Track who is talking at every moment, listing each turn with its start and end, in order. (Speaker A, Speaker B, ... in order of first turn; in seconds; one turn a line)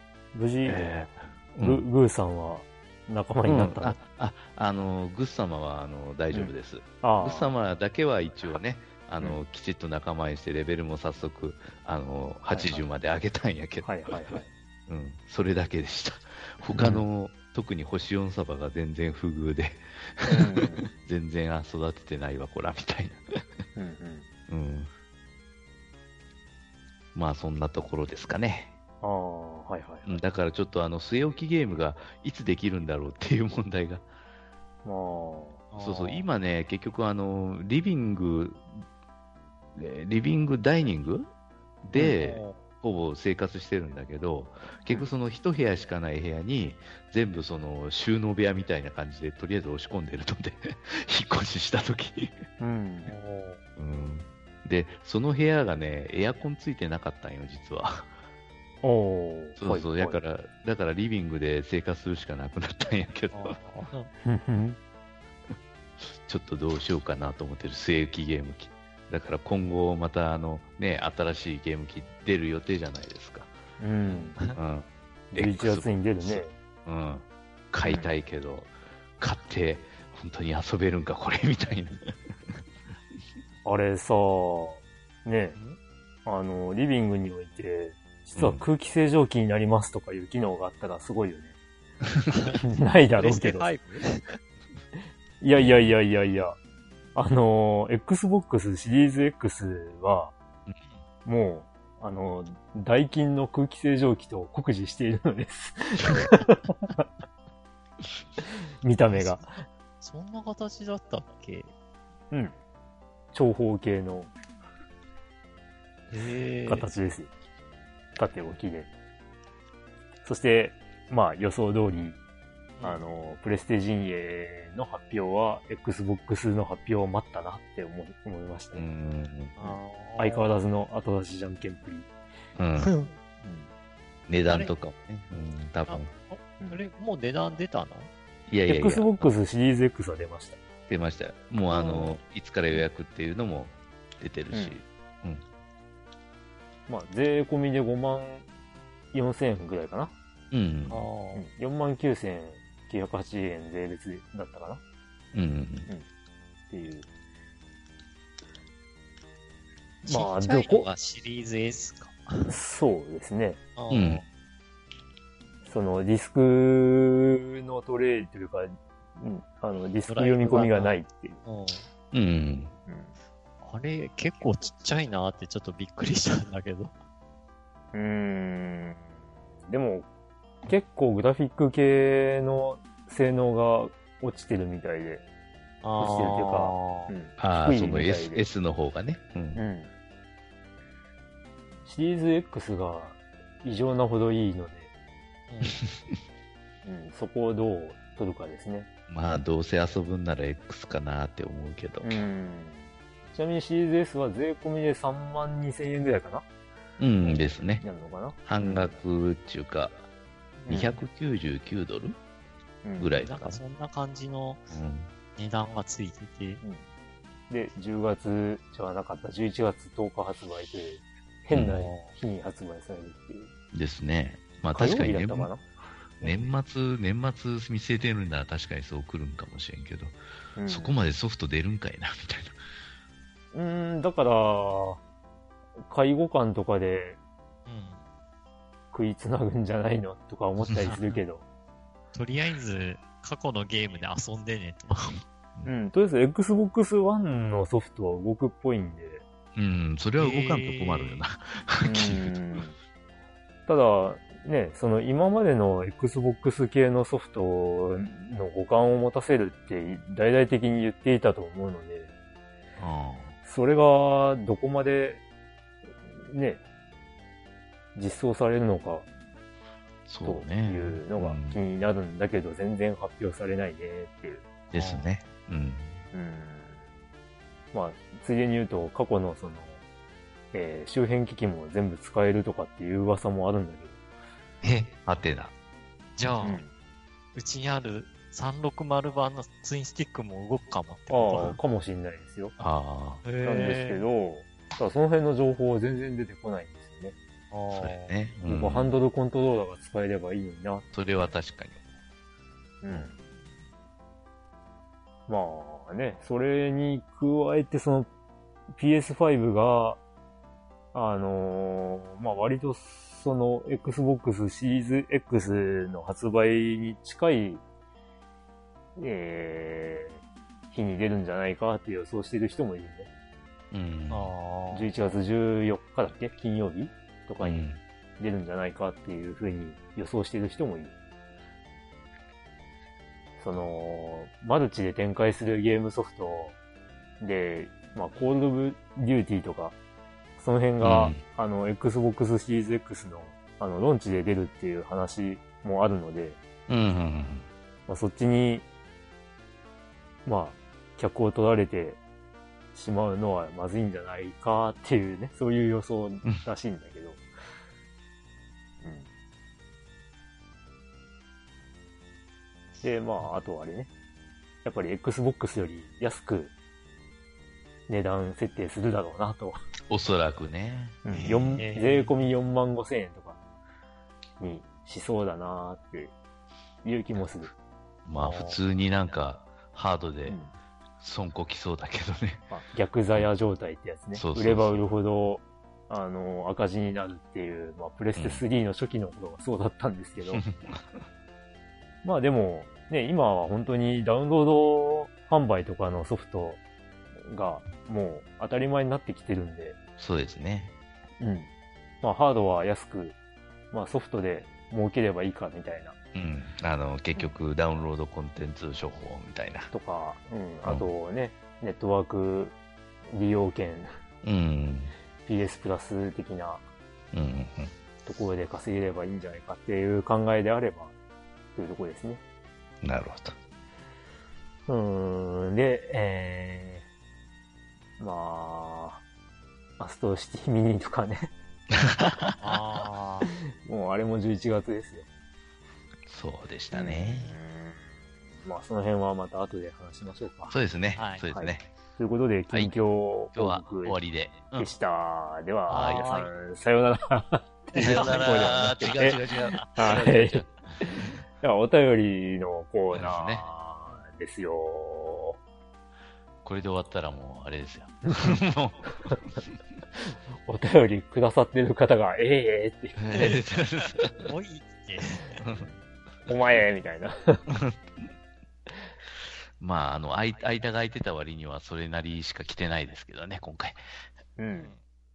Speaker A: 0.3-4.0
Speaker B: 0.6-1.8
Speaker B: 3.5-14.0
Speaker A: 6.3-7.5
Speaker A: 13.8-14.5
Speaker B: 14.9-23.6
Speaker A: 16.7-17.0
Speaker A: 20.2-20.9
Speaker A: 23.8-24.3
Speaker B: 24.5-24.9
Speaker B: 27.1-28.7
Speaker A: 29.0-30.1
Speaker B: 30.0-34.0
Speaker A: 34.8-35.6
Speaker C: 35.7-36.2
Speaker B: 35.8-38.6
Speaker B: 39.7-41.3
Speaker B: 41.8-52.4
Speaker C: 42.0-42.6
Speaker A: 52.6-53.1
Speaker C: 53.0-53.6
Speaker B: 53.8-58.1
Speaker A: 58.8-60.2
Speaker B: 59.6-63.6
Speaker C: 63.3-64.1
Speaker A: 64.2-64.8
Speaker B: 66.0-73.5
Speaker A: 73.8-74.4
Speaker C: 74.1-74.5
Speaker B: 74.5-82.0
Speaker A: 75.3-76.5
Speaker A: 77.8-78.1
Speaker A: 83.6-85.6
Speaker A: 86.2-91.5
Speaker B: 88.3-88.6
Speaker C: 92.3-92.6
Speaker A: 92.6-93.7
Speaker C: 93.2-94.4
Speaker A: 95.4-96.6
Speaker A: 97.1-100.3
Speaker A: 101.2-107.1
Speaker A: 108.8-109.6
Speaker C: 109.1-109.4
Speaker C: 110.0-111.7
Speaker A: 112.3-112.5
Speaker A: 113.3-114.3
Speaker C: 116.1-116.9
Speaker A: 116.7-117.3
Speaker A: 118.2-118.9
Speaker A: 120.2-122.2
Speaker C: 122.8-123.0
Speaker A: 122.8-128.8
Speaker B: 128.7-129.6
Speaker C: 129.6-130.5
Speaker A: 129.6-132.1
Speaker B: 132.6-132.9
Speaker C: 132.8-133.1
Speaker A: 133.4-133.7
Speaker B: 134.3-136.1
Speaker C: 135.9-138.1
Speaker B: 138.5-139.1
Speaker A: 138.7-140.6
Speaker B: 140.9-145.4
Speaker A: 141.7-142.1
Speaker C: 141.8-142.1
Speaker A: 144.5-144.8
Speaker A: 146.9-148.4
Speaker A: 149.1-150.1
Speaker B: 150.5-151.1
Speaker C: 150.9-151.4
Speaker A: 151.3-154.8
Speaker B: 155.3-155.9
Speaker A: 156.7-157.1
Speaker A: 160.0-160.9
Speaker C: 160.1-162.6
Speaker A: 162.5-163.6
Speaker C: 163.8-164.2
Speaker B: 163.9-164.2
Speaker A: 165.6-171.4
Speaker C: 170.1-171.9
Speaker B: 172.1-172.7
Speaker A: 172.9-173.1
Speaker C: 173.6-176.9
Speaker A: 177.9-179.0
Speaker A: 179.7-180.1
Speaker A: 180.6-185.2
Speaker C: 185.8-187.1
Speaker A: 186.0-188.4
Speaker B: 187.4-189.6
Speaker A: 189.5-189.9
Speaker A: 191.8-194.9
Speaker C: 195.5-195.8
Speaker B: 195.7-196.2
Speaker A: 196.8-198.9
Speaker B: 199.1-202.1
Speaker A: 202.0-206.4
Speaker B: 207.0-207.8
Speaker A: 207.2-208.9
Speaker B: 208.4-210.0
Speaker C: 210.6-210.8
Speaker A: 210.7-210.9
Speaker B: 210.7-212.2
Speaker A: 212.8-213.1
Speaker B: 213.0-213.6
Speaker C: 213.2-214.7
Speaker B: 214.7-215.1
Speaker C: 215.3-216.6
Speaker A: 217.5-223.5
Speaker C: 221.7-222.1
Speaker B: 223.7-225.5
Speaker A: 224.7-225.6
Speaker B: 226.2-232.6
Speaker A: 230.6-230.9
Speaker A: 233.5-235.0
Speaker A: 235.9-237.2
Speaker C: 237.7-238.0
Speaker A: 238.9-241.4
Speaker B: 240.7-240.9
Speaker C: 240.8-241.2
Speaker C: 242.1-245.2
Speaker B: 244.9-245.7
Speaker A: 245.6-249.2
Speaker B: 249.5-252.3
Speaker C: 250.2-251.2
Speaker A: 251.8-252.8
Speaker A: 253.7-262.1
Speaker B: 262.8-263.3
Speaker A: 263.4-265.2
Speaker A: 266.1-266.6
Speaker A: 267.9-269.1
Speaker B: 270.1-271.6
Speaker A: 270.2-274.4
Speaker B: 274.7-276.0
Speaker C: 274.7-275.1
Speaker A: 276.1-276.8
Speaker A: 277.7-279.8
Speaker A: 280.5-284.0
Speaker C: 284.6-284.9
Speaker B: 284.9-285.5
Speaker C: 286.2-286.6
Speaker A: 286.4-286.7
Speaker C: 287.3-291.6
Speaker A: 291.1-292.5
Speaker B: 292.6-293.2
Speaker C: 293.2-294.0
Speaker A: 293.4-297.1
Speaker C: 297.5-298.1
Speaker B: 297.7-298.9
Speaker A: 298.4-300.9
Speaker B: 300.9-301.8
Speaker A: 302.8-303.1
Speaker A: 305.3-308.1
Speaker A: 308.7-310.0
Speaker A: 310.9-317.6
Speaker A: 318.9-323.1
Speaker B: 323.7-324.3
Speaker C: 324.1-324.9
Speaker A: 324.7-330.9
Speaker B: 327.4-327.8
Speaker A: 333.4-336.5
Speaker A: 337.2-339.8
Speaker A: 340.4-346.4
Speaker B: 340.8-341.2
Speaker B: 346.7-347.4
Speaker A: 347.9-348.6
Speaker A: 350.2-352.0
Speaker A: 352.7-357.2
Speaker A: 358.8-359.1
Speaker A: 362.8-363.9
Speaker A: 364.6-366.5
Speaker A: 367.9-369.6
Speaker B: 369.9-371.6
Speaker A: 371.0-373.4
Speaker C: 371.1-372.1
Speaker A: 374.4-376.1
Speaker A: 376.8-377.5
Speaker B: 378.1-380.4
Speaker C: 378.2-378.6
Speaker B: 381.0-382.5
Speaker A: 382.5-390.4
Speaker B: 384.1-384.8
Speaker B: 388.2-388.4
Speaker B: 390.3-391.0
Speaker A: 392.0-396.6
Speaker A: 397.2-399.8
Speaker B: 400.0-400.7
Speaker A: 401.2-401.5
Speaker A: 402.0-403.1
Speaker A: 403.7-405.9
Speaker B: 406.1-409.7
Speaker A: 409.7-412.6
Speaker A: 413.1-413.9
Speaker B: 414.2-414.9
Speaker A: 415.2-416.6
Speaker B: 417.1-417.7
Speaker A: 418.0-420.9
Speaker A: 421.5-422.2
Speaker B: 422.8-423.3
Speaker A: 424.7-426.8
Speaker A: 428.0-429.0
Speaker A: 429.8-431.3
Speaker B: 431.7-432.5
Speaker C: 432.4-433.3
Speaker A: 433.6-435.1
Speaker B: 436.1-437.3
Speaker A: 436.7-437.9
Speaker A: 438.4-440.5
Speaker B: 440.5-441.7
Speaker C: 440.9-441.3
Speaker A: 441.3-444.0
Speaker B: 442.5-442.8
Speaker B: 443.3-444.7
Speaker A: 444.5-449.2
Speaker C: 445.7-446.3
Speaker B: 445.7-446.1
Speaker C: 447.7-449.9
Speaker B: 447.8-451.0
Speaker A: 449.7-455.4
Speaker B: 452.9-453.5
Speaker B: 456.4-459.1
Speaker A: 458.1-458.4
Speaker A: 460.4-463.3
Speaker B: 463.0-464.1
Speaker C: 464.2-465.5
Speaker B: 465.4-465.6
Speaker A: 465.6-467.4
Speaker B: 467.5-468.1
Speaker B: 469.6-473.8
Speaker A: 474.4-474.7